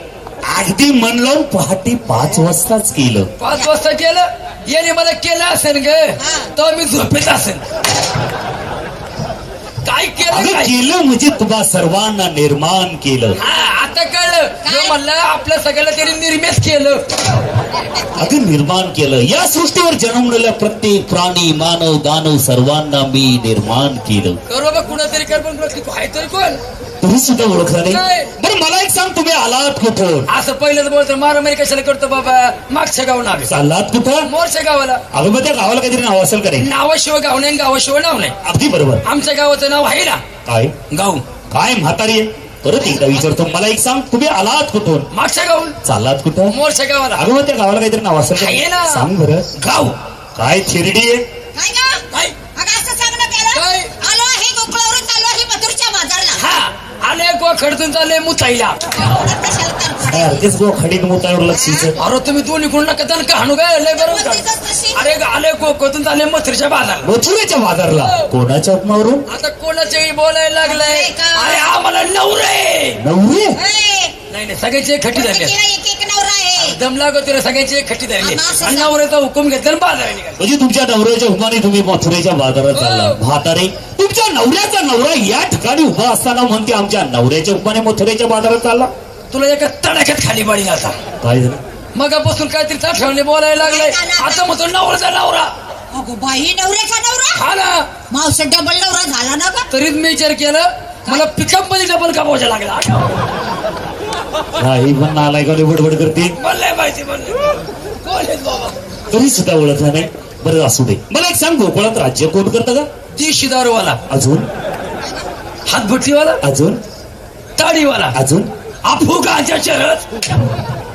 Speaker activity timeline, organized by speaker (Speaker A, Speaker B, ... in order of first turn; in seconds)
Speaker A: 0.5-3.3, 10.3-13.4, 18.2-24.4, 27.0-30.3, 33.5-34.3, 35.1-36.7, 38.4-39.0, 40.5-40.7, 41.5-45.1, 45.8-46.5, 47.1-49.5, 50.4-51.2, 60.1-62.0, 67.0-69.2, 73.0-73.6, 80.4-88.9, 91.2-91.6, 104.6-106.4, 109.1-112.9, 114.1-114.5, 116.4-116.8, 118.2-118.5
Speaker B: 3.4-7.6, 9.8-10.7, 13.4-17.3, 24.5-26.6, 27.9-28.3, 30.3-33.5, 34.2-35.0, 36.6-38.4, 39.0-40.2, 40.9-41.2, 45.1-45.8, 46.5-47.2, 48.3-49.1, 49.6-50.0, 53.5-53.9, 56.4-58.9, 62.0-67.1, 68.0-68.3, 69.3-73.0, 74.3-75.5, 76.6-80.4, 82.7-83.2, 89.3-91.0, 92.0-95.5, 97.3-97.9, 99.7-103.2, 106.4-108.8, 113.1-114.0, 115.7-116.4, 117.6-118.2, 118.8-120.6
Speaker C: 6.2-6.5, 14.7-15.0, 51.5-52.0, 52.5-56.5, 59.0-60.5, 61.5-61.9, 63.9-65.0, 70.6-71.8, 73.6-74.1, 75.1-76.8, 78.2-78.9, 93.6-94.5, 95.9-97.4, 98.1-99.7